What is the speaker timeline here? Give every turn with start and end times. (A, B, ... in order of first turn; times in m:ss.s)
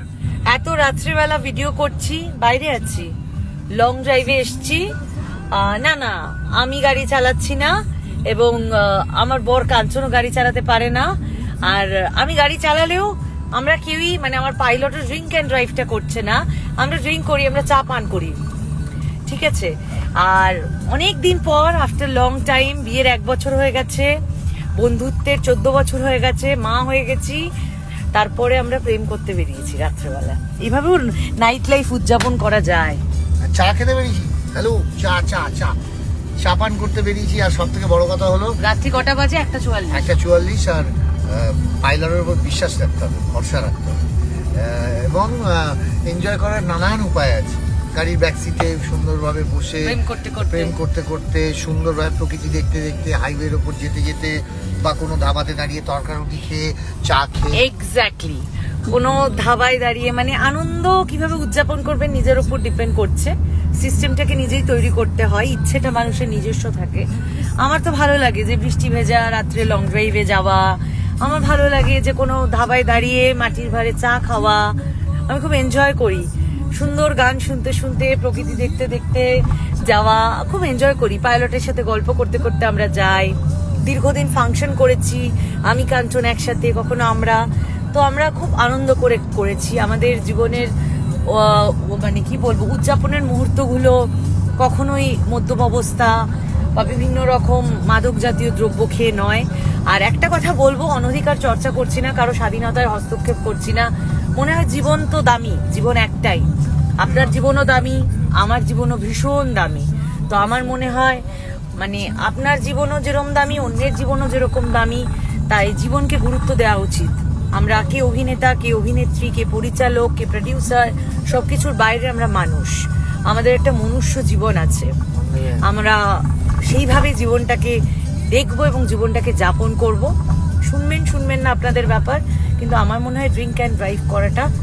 0:00.5-0:03.1 A
0:03.7-0:04.9 A
0:05.5-0:07.8 A
0:08.3-0:11.1 A
0:11.6-0:18.4 A
0:19.3-0:24.1 A
0:24.7-0:27.4 A
0:28.1-0:33.0 A
0:33.4-0:35.8 B
0:36.4-0:38.6 B
0:38.6-0:40.1 A
0:39.9-0:44.0 B
0:44.5-0:57.6 B
0:49.8-0:50.8 A
0:57.5-1:07.1 A
1:07.6-1:14.7 A
1:15.3-1:27.4 A
1:27.9-1:30.7 A
1:31.3-1:34.0 A
1:34.6-1:36.1 A
1:36.8-1:46.5 A
1:47.0-1:51.2 A
1:51.8-2:04.9 A
2:05.1-2:05.6 B
2:05.6-2:07.8 A
2:08.3-2:10.1 A
2:10.7-2:14.5 A